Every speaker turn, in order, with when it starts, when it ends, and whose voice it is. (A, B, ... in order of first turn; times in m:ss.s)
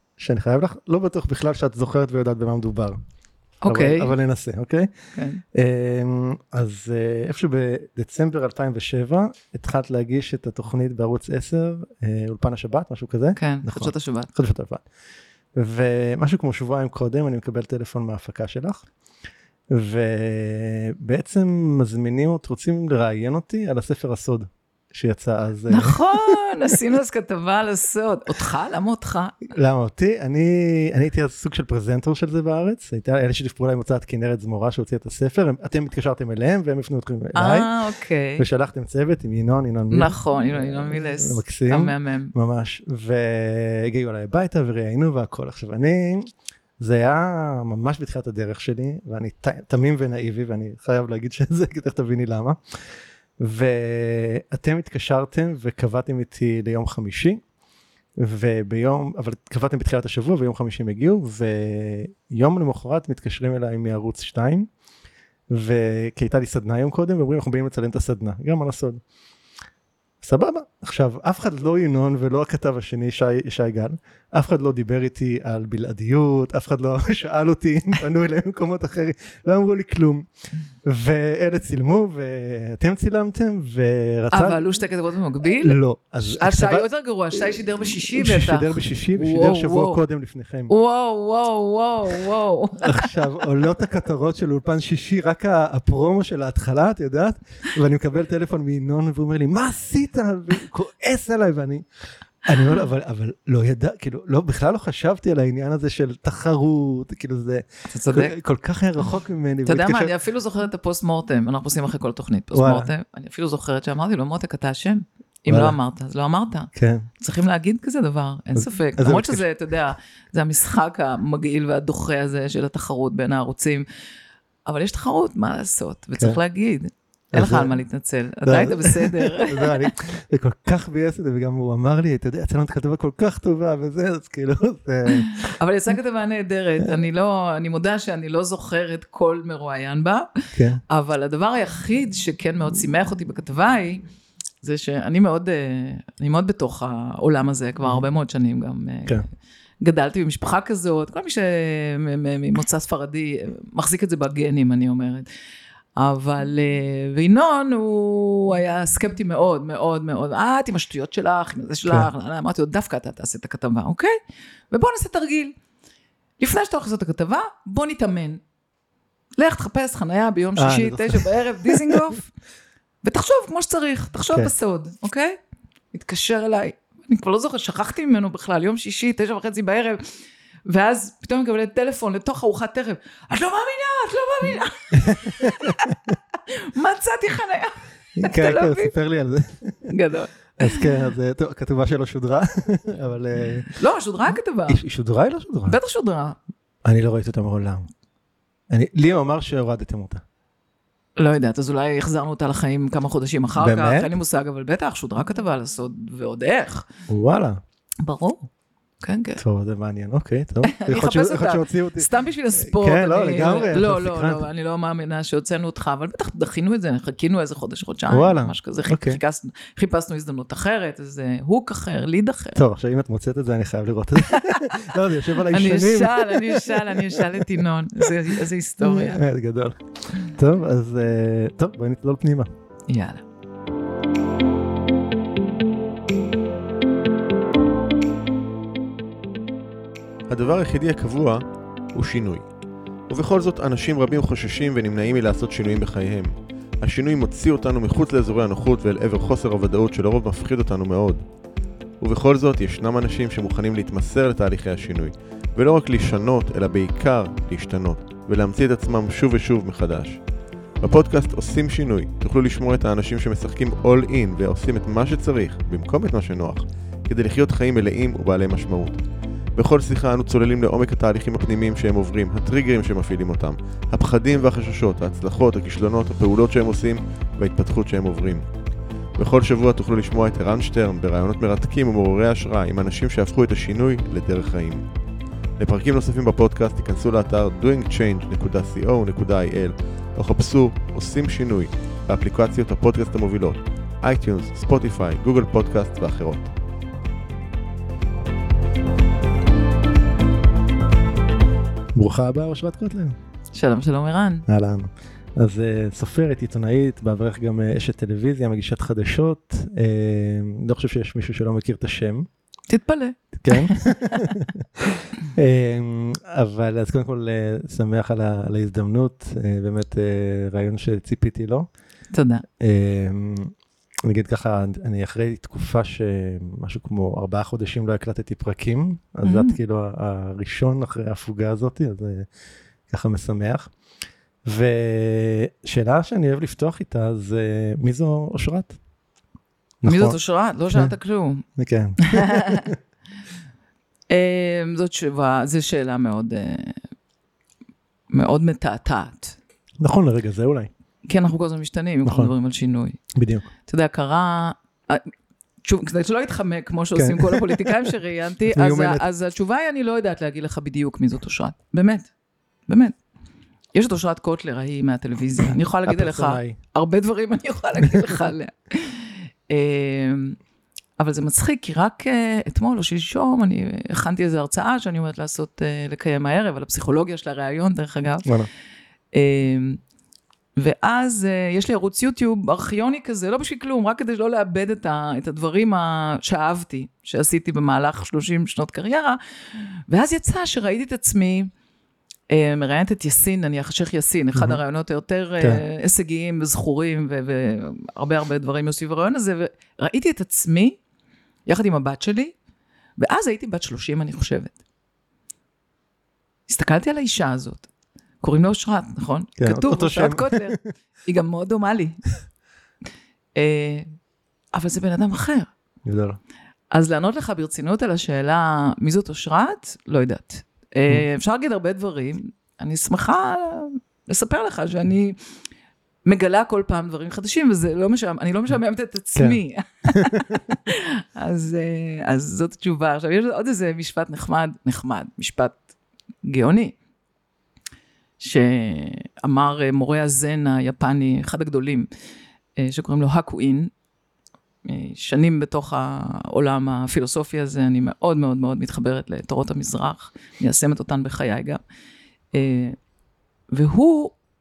0:00.2-0:03.0 A
0:03.6-0:04.1 B
0:03.7-0:04.9 A
0:05.2-0:05.4 B
0:05.5-0:14.8 A
0:13.4-0:14.3 B
0:15.5-0:18.9 A
0:19.7-0:26.4 A
0:25.7-0:29.5 B
0:29.5-0:37.7 A
0:37.4-0:38.4 B
0:38.4-0:52.8 A
0:39.9-0:42.3 B
0:53.4-0:57.4 A
0:58.2-1:04.7 A
1:05.5-1:09.0 A
1:10.2-1:20.3 A
1:20.8-1:24.6 A
1:24.3-1:30.0 B
1:25.6-1:26.9 A
1:28.1-1:30.7 A
1:30.7-1:33.1 B
1:32.8-1:41.8 A
1:42.4-1:50.1 A
1:47.9-1:48.4 B
1:49.6-2:03.9 B
1:52.5-1:52.9 A
1:55.5-1:55.8 A
1:56.7-1:57.1 A
1:58.6-1:59.4 A
2:04.6-2:09.9 B
2:07.3-2:07.7 A
2:08.4-2:15.5 A
2:15.1-2:24.0 B
2:20.5-2:20.8 A
2:24.6-2:29.2 B
2:29.8-2:35.3 B
2:36.0-2:44.2 B
2:44.7-2:45.6 B
2:46.4-2:48.4 B
2:49.4-2:52.3 B
2:50.6-2:52.1 A
2:53.0-2:55.4 B
2:55.9-3:00.0 B
3:00.7-3:06.0 B
3:05.0-3:06.1 A
3:06.5-3:08.9 B
3:08.2-3:09.9 A
3:09.9-3:10.9 B
3:10.6-3:13.8 A
3:13.8-3:14.8 B
3:14.7-3:15.8 A
3:15.7-3:16.4 B
3:16.8-3:17.9 A
3:18.7-3:20.2 A
3:21.2-3:26.9 B
3:23.6-3:24.1 A
3:27.1-3:27.6 A
3:28.0-3:28.5 B
3:29.0-3:29.4 B
3:29.4-3:34.4 A
3:30.7-3:42.6 B
3:38.1-3:39.2 A
3:42.6-3:47.2 A
3:44.3-3:44.6 B
3:45.5-3:49.2 B
3:48.8-3:52.5 A
3:52.9-3:53.2 B
4:00.3-4:02.5 C
4:03.1-4:11.2 C
4:12.0-4:20.2 C
4:20.8-4:29.0 C
4:29.6-4:38.5 C
4:39.2-4:44.9 C
4:45.6-4:56.5 C
5:02.0-5:03.2 A
5:03.5-5:04.4 B
5:04.5-5:12.3 A
5:12.7-5:14.2 B
5:13.4-5:21.7 A
5:22.1-5:22.4 B
5:22.6-5:32.3 A
5:29.3-5:29.6 B
5:32.9-5:33.7 A
5:34.4-5:38.8 A
5:39.8-5:40.2 A
5:39.9-5:41.5 B
5:41.6-5:42.7 A
5:42.0-5:42.7 B
5:44.1-5:46.8 B
5:48.1-5:49.4 B
5:49.8-5:50.7 A
5:51.1-5:53.0 B
5:52.0-5:52.3 A
5:53.2-5:53.5 A
5:53.7-5:55.1 B
5:55.6-6:02.1 B
5:57.0-5:57.7 A
5:58.5-5:59.0 A
6:02.7-6:03.0 B
6:03.7-6:10.4 B
6:05.9-6:06.6 A
6:11.0-6:18.3 B
6:19.1-6:19.8 B
6:20.6-6:31.5 B
6:32.3-6:40.8 B
6:34.4-6:34.6 A
6:41.5-6:42.3 B
6:43.0-6:44.6 B
6:46.5-6:47.7 B
6:48.2-6:52.0 B
6:49.4-6:50.6 A
6:53.4-6:53.9 B
6:54.5-6:55.5 B
6:55.8-6:56.2 A
6:56.7-7:05.2 B
7:06.0-7:15.6 B
7:09.2-7:10.4 A
7:16.2-7:16.8 B
7:18.2-7:21.9 B
7:22.6-7:23.7 B
7:24.6-7:31.6 B
7:32.3-7:32.8 B
7:33.5-7:34.2 B